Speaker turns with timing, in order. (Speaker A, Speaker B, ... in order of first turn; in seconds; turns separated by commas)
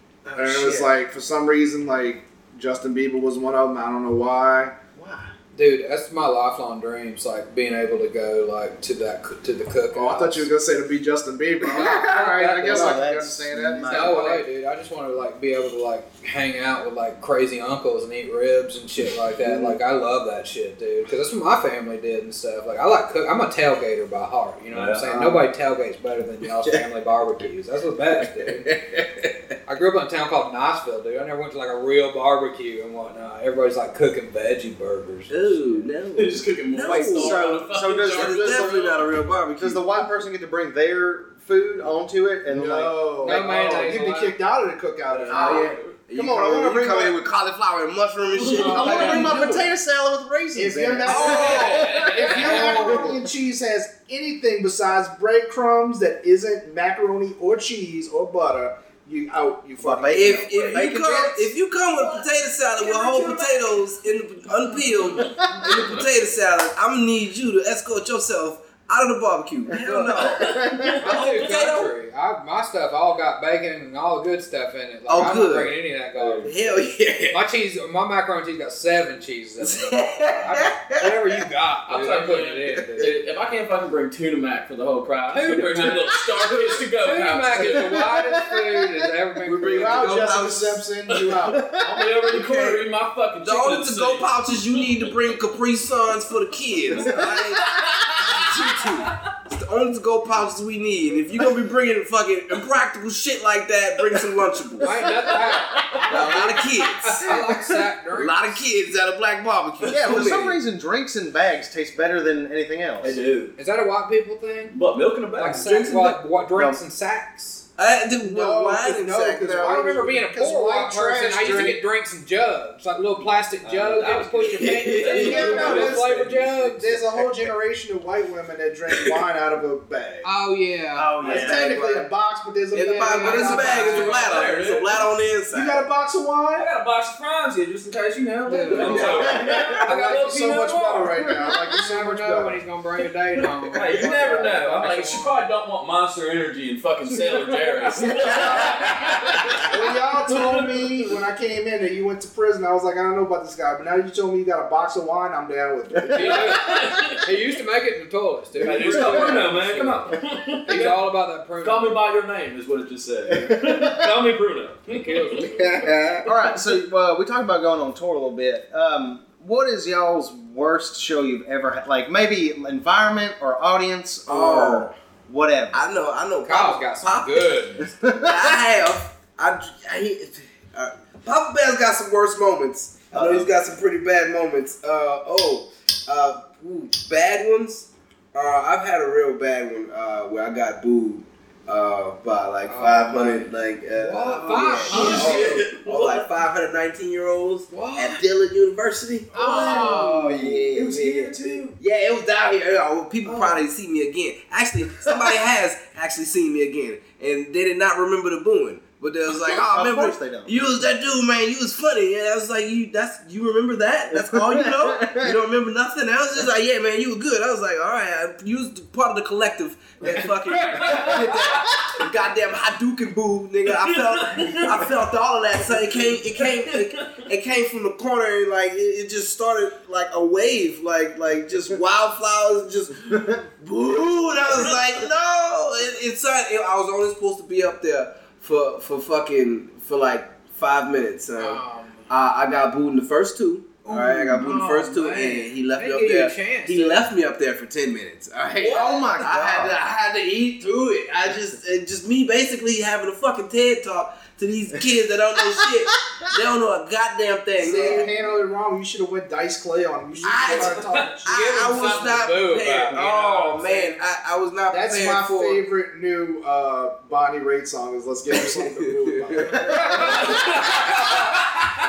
Speaker A: 0.2-0.9, Speaker B: 0.4-4.8, Speaker A: 5.0-5.3, Speaker C: 5.5-10.5, Speaker B: 9.9-14.4, Speaker A: 11.6-14.3, Speaker C: 11.7-13.1, Speaker C: 13.9-28.7, Speaker D: 24.7-25.1, Speaker E: 28.4-29.3, Speaker C: 29.7-35.9, Speaker E: 35.3-37.5, Speaker D: 36.2-38.9, Speaker A: 37.0-43.5, Speaker E: 38.0-39.9, Speaker B: 42.5-45.8, Speaker C: 43.2-44.4, Speaker D: 45.1-46.0, Speaker E: 45.3-49.7, Speaker A: 46.1-47.2, Speaker D: 48.3-49.5, Speaker C: 48.5-49.4, Speaker A: 48.6-53.2, Speaker B: 50.5-60.5, Speaker E: 51.0-52.0, Speaker C: 51.2-53.1, Speaker D: 51.2-52.6, Speaker A: 59.8-61.5, Speaker E: 60.0-71.9, Speaker D: 60.4-60.9, Speaker D: 62.0-66.1, Speaker A: 65.3-65.8, Speaker A: 69.7-71.0, Speaker D: 70.4-71.0, Speaker C: 71.0-76.5, Speaker E: 75.1-75.8, Speaker E: 76.4-77.4, Speaker C: 77.3-83.2, Speaker E: 79.6-81.4, Speaker D: 81.9-87.9, Speaker C: 85.3-90.3, Speaker A: 87.9-88.9, Speaker B: 89.6-91.8, Speaker E: 89.7-90.8, Speaker D: 91.1-95.4, Speaker A: 91.5-92.0, Speaker E: 92.3-92.8, Speaker E: 93.4-105.1, Speaker D: 97.0-99.2, Speaker C: 104.8-108.6, Speaker D: 105.6-106.3, Speaker E: 106.1-110.6, Speaker A: 109.9-113.2, Speaker D: 113.0-113.5, Speaker C: 113.6-114.8, Speaker D: 114.7-116.2, Speaker C: 115.4-117.6, Speaker A: 116.5-116.8, Speaker E: 117.8-120.0, Speaker B: 118.2-121.8, Speaker C: 119.6-127.0, Speaker A: 120.5-121.8, Speaker D: 123.6-126.5, Speaker E: 124.5-126.0, Speaker B: 125.2-130.3, Speaker C: 130.2-131.1, Speaker A: 130.9-132.1, Speaker B: 131.2-134.0, Speaker E: 131.2-131.8, Speaker E: 132.7-135.8, Speaker C: 133.0-134.3, Speaker D: 133.6-135.1, Speaker B: 135.5-136.7, Speaker D: 136.6-141.6, Speaker C: 138.5-140.3, Speaker E: 138.7-139.7, Speaker B: 138.9-142.6, Speaker A: 138.9-139.6, Speaker C: 141.7-145.5, Speaker D: 143.7-150.9, Speaker B: 144.0-144.6, Speaker E: 148.1-149.7, Speaker B: 148.1-148.8, Speaker B: 149.7-156.5, Speaker C: 156.1-162.0, Speaker D: 156.1-157.3, Speaker D: 158.6-161.1, Speaker A: 158.9-159.3, Speaker D: 161.6-165.8, Speaker A: 163.3-164.1, Speaker C: 164.9-165.9, Speaker E: 165.6-166.3, Speaker A: 166.2-175.9, Speaker E: 174.3-174.9, Speaker E: 175.7-200.8, Speaker C: 176.4-177.8, Speaker A: 177.9-178.7, Speaker A: 183.1-183.4, Speaker C: 192.7-195.6, Speaker D: 194.9-196.3, Speaker C: 197.7-198.2, Speaker C: 199.3-200.5, Speaker A: 199.3-201.6, Speaker D: 200.7-201.8, Speaker E: 201.8-258.1, Speaker A: 205.0-205.3, Speaker A: 209.3-210.7, Speaker A: 214.1-215.4, Speaker D: 220.6-221.6, Speaker D: 223.7-224.9, Speaker D: 226.3-227.2, Speaker A: 233.1-233.4, Speaker C: 241.4-242.1, Speaker C: 243.9-247.1, Speaker D: 248.6-249.1, Speaker A: 248.6-249.8, Speaker A: 255.4-256.4, Speaker B: 257.6-262.1, Speaker C: 257.6-258.1, Speaker E: 260.2-265.6, Speaker C: 260.4-260.7, Speaker D: 260.7-261.1, Speaker C: 261.2-264.0, Speaker B: 264.7-270.1, Speaker E: 268.3-270.4, Speaker C: 269.7-271.5, Speaker D: 270.2-270.7